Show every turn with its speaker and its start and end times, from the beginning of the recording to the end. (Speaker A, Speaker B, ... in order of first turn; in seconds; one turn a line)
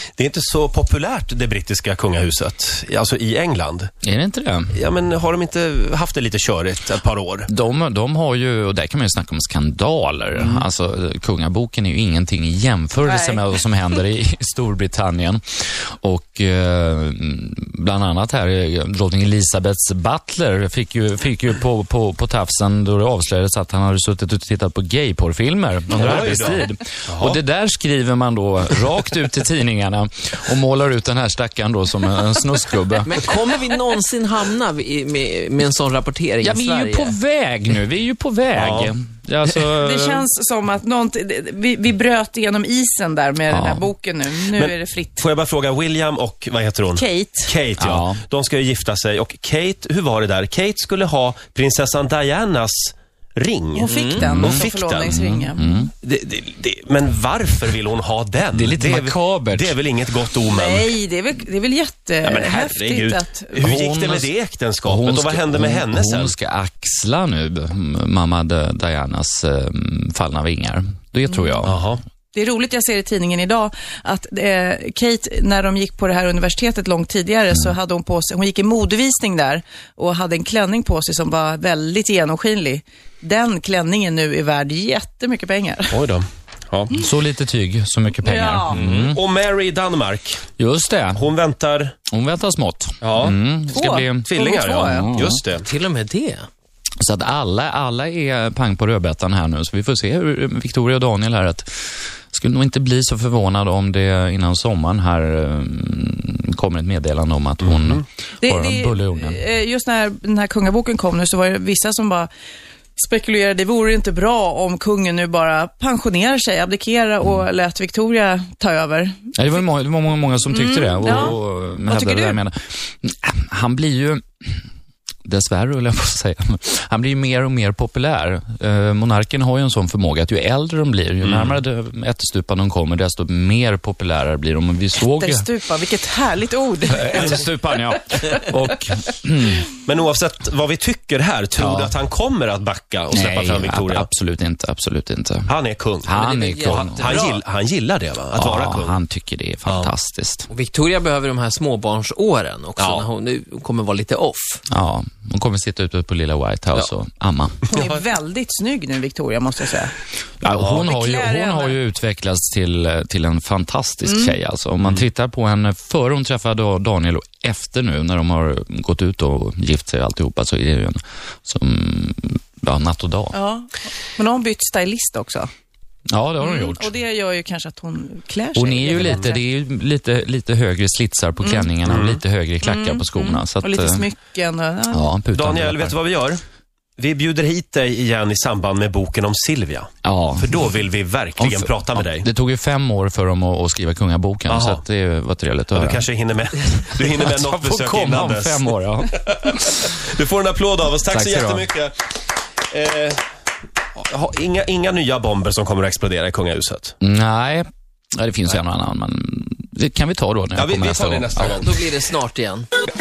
Speaker A: 0.2-3.9
Speaker B: 4.0-4.7
Speaker A: 4.7-7.5
Speaker B: 7.5-33.2
Speaker A: 10.4-10.6
Speaker C: 13.0-13.4
Speaker A: 25.9-27.4
Speaker D: 33.0-37.1
Speaker B: 36.4-40.3
Speaker A: 38.5-38.9
Speaker C: 39.8-45.2
Speaker B: 43.5-43.9
Speaker A: 44.5-55.1
Speaker C: 46.9-47.5
Speaker B: 47.8-48.2
Speaker C: 53.7-55.7
Speaker D: 53.9-54.2
Speaker B: 54.2-55.9
Speaker A: 56.0-60.9
Speaker B: 58.5-59.8
Speaker C: 60.4-63.5
Speaker A: 62.2-66.3
Speaker B: 63.6-64.3
Speaker B: 64.8-71.8
Speaker A: 71.6-72.0
Speaker C: 72.3-86.0
Speaker A: 85.9-86.9
Speaker B: 86.9-89.2
Speaker C: 88.2-88.8
Speaker A: 88.7-90.4
Speaker B: 90.6-91.3
Speaker A: 91.1-91.9
Speaker B: 92.1-95.4
Speaker A: 93.0-93.3
Speaker C: 93.7-95.1
Speaker A: 94.2-95.7
Speaker D: 95.5-96.5
Speaker B: 97.0-109.4
Speaker A: 107.6-108.0
Speaker C: 108.4-112.3
Speaker C: 113.0-119.2
Speaker B: 119.3-124.6
Speaker C: 120.5-122.4
Speaker B: 125.2-135.5
Speaker A: 131.2-131.6
Speaker C: 135.0-137.5
Speaker B: 136.8-139.7
Speaker A: 139.8-144.1
Speaker B: 141.6-141.9
Speaker B: 143.1-145.5
Speaker A: 145.5-146.2
Speaker B: 146.0-147.3
Speaker D: 146.1-147.4
Speaker A: 146.7-149.0
Speaker B: 148.3-150.5
Speaker A: 149.7-149.9
Speaker D: 150.5-154.6
Speaker A: 152.8-153.1
Speaker B: 154.7-157.6
Speaker C: 157.7-159.9
Speaker B: 160.4-173.3
Speaker C: 160.8-161.8
Speaker C: 164.1-164.4
Speaker C: 173.3-175.5
Speaker B: 176.1-176.9
Speaker C: 176.4-179.4
Speaker B: 178.6-184.1
Speaker C: 181.4-181.7
Speaker A: 181.8-182.2
Speaker C: 182.6-185.1
Speaker B: 184.9-185.9
Speaker A: 185.3-186.4
Speaker A: 187.0-192.3
Speaker B: 190.0-190.7
Speaker B: 191.4-196.1
Speaker A: 194.5-194.8
Speaker A: 195.7-202.2
Speaker B: 197.0-199.9
Speaker B: 201.1-201.7
Speaker A: 202.7-203.2
Speaker A: 204.0-206.9
Speaker B: 207.0-211.6
Speaker A: 210.5-211.8
Speaker D: 211.6-212.7